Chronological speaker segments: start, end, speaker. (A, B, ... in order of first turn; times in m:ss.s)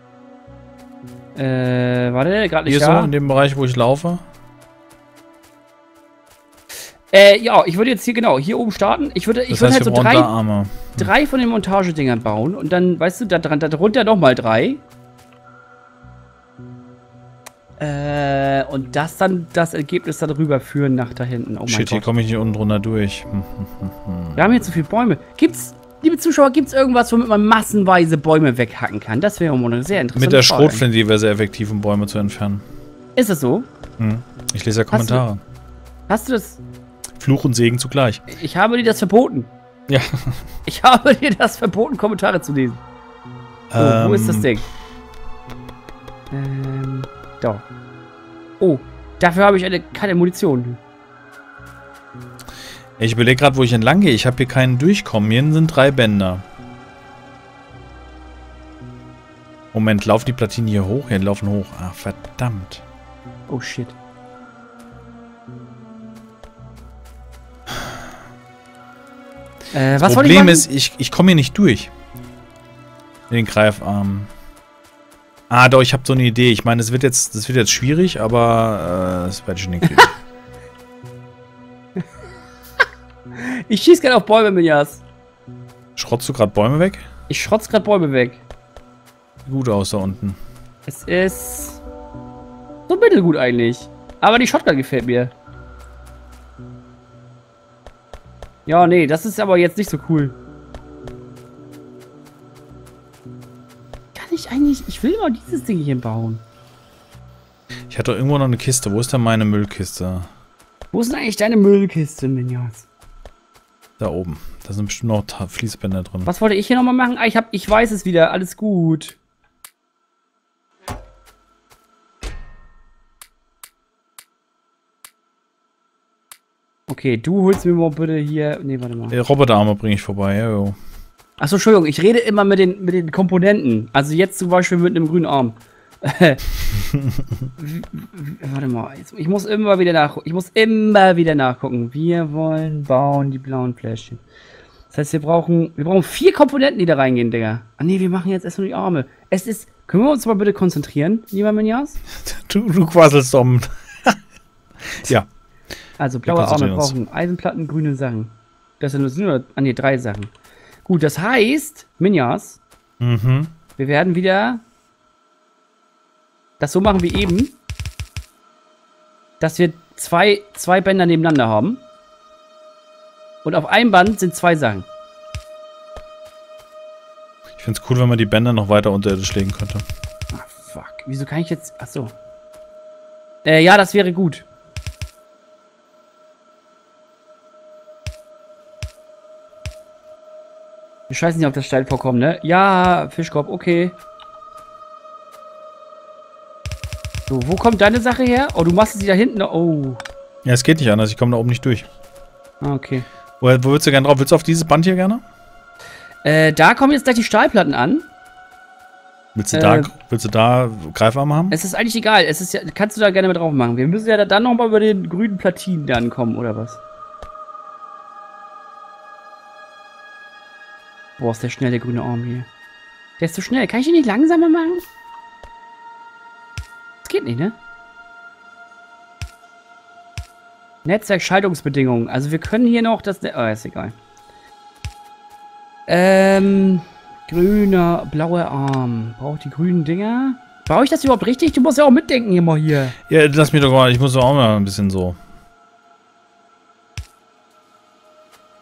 0:01.3-0:03.1 A
0:02.6-0:04.2 B
0:07.1-0:10.3 A
0:09.5-0:11.1 B
0:11.0-0:14.8 A
0:17.8-0:22.1 A
0:21.7-0:24.5 B
0:24.4-0:30.8 A
0:30.2-0:32.6 B
0:33.2-0:33.7 A
0:34.0-0:35.4 B
0:34.9-0:35.2 A
0:36.1-0:36.6 A
0:37.2-0:38.2 B
0:38.3-0:39.5 A
0:39.9-0:40.4 B
0:40.6-0:42.8 A
0:43.7-0:44.5 B
0:43.8-0:44.7 A
0:46.3-0:47.7 A
0:48.6-0:50.8 A
0:53.0-0:56.4 B
0:59.7-1:02.8 B
1:03.5-1:04.0 A
1:09.7-1:10.6 A
1:10.0-1:11.9 B
1:13.3-1:14.3 B
1:15.5-1:20.1 B
1:23.3-1:25.0 A
1:26.0-1:27.0 B
1:27.3-1:28.4 A
1:29.4-1:30.4 B
1:30.9-1:31.8 A
1:32.9-1:35.3 A
1:38.6-1:40.4 A
1:44.1-1:46.4 A
1:47.9-1:50.3 B
1:50.9-1:52.9 A
1:54.0-1:56.3 B
1:56.2-1:59.2 A
2:06.9-2:09.2 A
2:09.1-2:10.8 B
2:11.4-2:16.4 A
2:17.6-2:24.2 A
2:24.9-2:32.0 A
2:32.2-2:34.2 B
2:35.0-2:35.3 B
2:36.0-2:40.3 A
2:36.2-2:37.0 B
2:40.8-2:42.6 A
2:43.0-2:43.5 B
2:43.8-2:44.6 A
2:46.6-2:47.5 A
2:49.4-2:51.8 A
2:53.4-2:54.8 A
2:57.6-2:59.8 B
3:00.3-3:02.1 A
3:03.4-3:04.4 A
3:11.1-3:14.0 A
3:17.3-3:20.0 A
3:20.4-3:21.9 B
3:22.6-3:23.0 A
3:23.4-3:25.2 B
3:26.2-3:28.0 A
3:29.3-3:31.6 B
3:29.5-3:29.9 A
3:31.5-3:36.8 A
3:41.2-3:42.5 A
3:43.2-3:44.8 A
3:47.0-3:47.6 A
3:50.8-3:53.9 A
3:55.9-4:02.9 A
4:03.1-4:05.2 B